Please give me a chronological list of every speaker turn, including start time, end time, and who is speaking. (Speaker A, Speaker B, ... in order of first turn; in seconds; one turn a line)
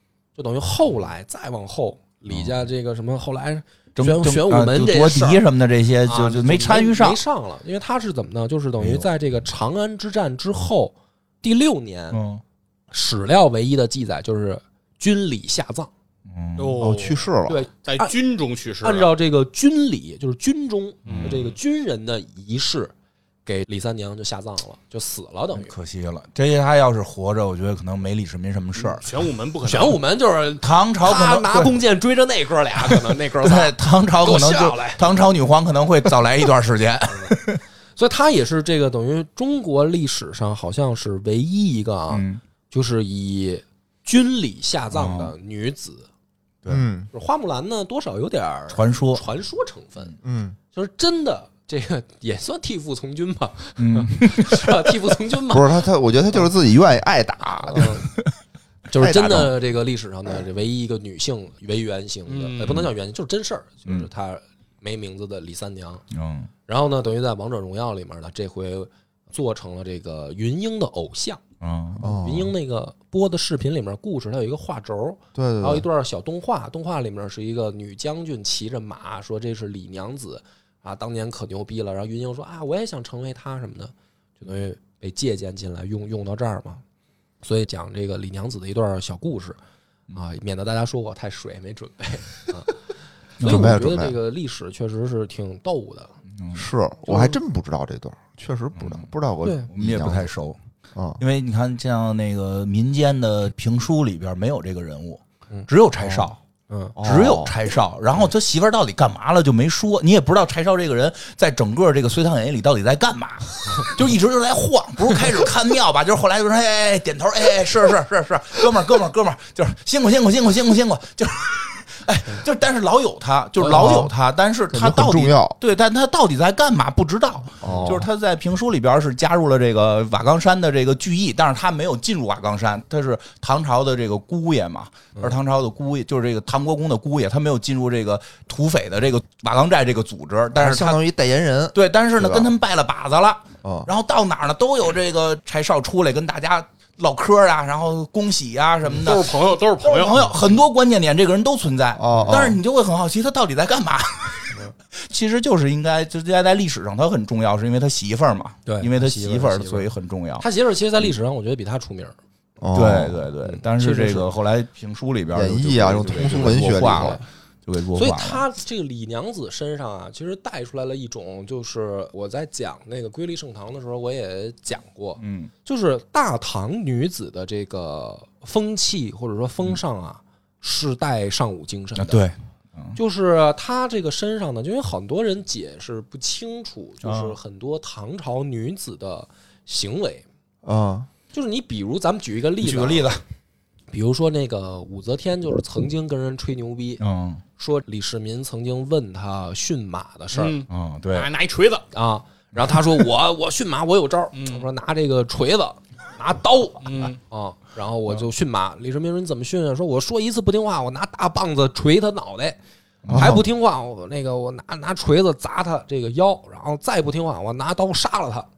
Speaker A: 0.3-5.4
Speaker B: 4.0-7.2
Speaker A: 6.0-12.2
Speaker B: 8.8-9.1
Speaker B: 12.1-12.4
Speaker A: 12.9-15.9
Speaker B: 16.3-16.8
Speaker C: 16.6-19.1
Speaker D: 16.8-17.6
Speaker A: 17.5-18.1
Speaker A: 18.8-22.9
Speaker B: 21.1-21.4
Speaker C: 21.1-21.5
Speaker A: 23.4-25.7
Speaker B: 25.6-29.1
Speaker C: 28.9-30.0
Speaker A: 29.6-35.1
Speaker B: 30.6-31.7
Speaker B: 32.8-37.6
Speaker A: 38.0-46.1
Speaker B: 42.1-42.4
Speaker B: 44.9-45.3
Speaker D: 46.7-47.1
Speaker A: 47.1-50.1
Speaker B: 48.7-49.2
Speaker D: 50.2-50.6
Speaker A: 50.7-55.8
Speaker B: 53.8-54.7
Speaker D: 55.5-58.0
Speaker A: 57.6-58.1
Speaker A: 58.9-66.0
Speaker D: 58.9-59.5
Speaker C: 62.3-62.9
Speaker B: 66.1-66.5
Speaker A: 66.7-71.4
Speaker B: 71.6-72.0
Speaker D: 72.0-72.5
Speaker A: 72.0-86.8
Speaker D: 75.3-75.8
Speaker A: 87.4-89.6
Speaker A: 90.1-92.7
Speaker B: 93.4-93.8
Speaker D: 93.4-94.1
Speaker A: 93.4-96.1
Speaker B: 96.3-96.6
Speaker D: 96.5-100.3
Speaker A: 97.1-97.3
Speaker B: 98.8-99.1
Speaker A: 99.4-99.7
Speaker B: 99.7-100.6
Speaker D: 100.9-101.2
Speaker B: 101.2-106.3
Speaker D: 106.0-106.3
Speaker A: 106.7-107.0
Speaker D: 107.0-107.5
Speaker B: 107.0-141.0
Speaker D: 123.6-124.1
Speaker D: 124.7-125.5
Speaker D: 127.6-128.1
Speaker A: 127.6-127.9
Speaker D: 140.5-142.5
Speaker B: 141.7-160.4
Speaker D: 143.6-143.9
Speaker C: 148.9-150.4
Speaker D: 152.0-152.6
Speaker A: 158.7-159.9
Speaker A: 160.4-162.2
Speaker D: 162.6-163.2
Speaker B: 162.7-168.4
Speaker A: 163.4-164.3
Speaker D: 165.3-167.2
Speaker A: 167.9-182.2
Speaker B: 175.2-175.5
Speaker B: 181.9-183.0
Speaker A: 182.9-190.2
Speaker B: 187.0-187.3
Speaker D: 190.6-191.1
Speaker A: 191.3-193.1
Speaker B: 192.6-193.2
Speaker A: 193.9-197.0
Speaker B: 197.0-197.4
Speaker A: 197.6-200.6
Speaker C: 200.3-201.8
Speaker B: 200.7-201.3
Speaker A: 201.9-212.6
Speaker C: 204.3-204.7
Speaker C: 206.8-207.2
Speaker B: 213.0-213.4
Speaker D: 213.1-213.4
Speaker A: 213.1-218.5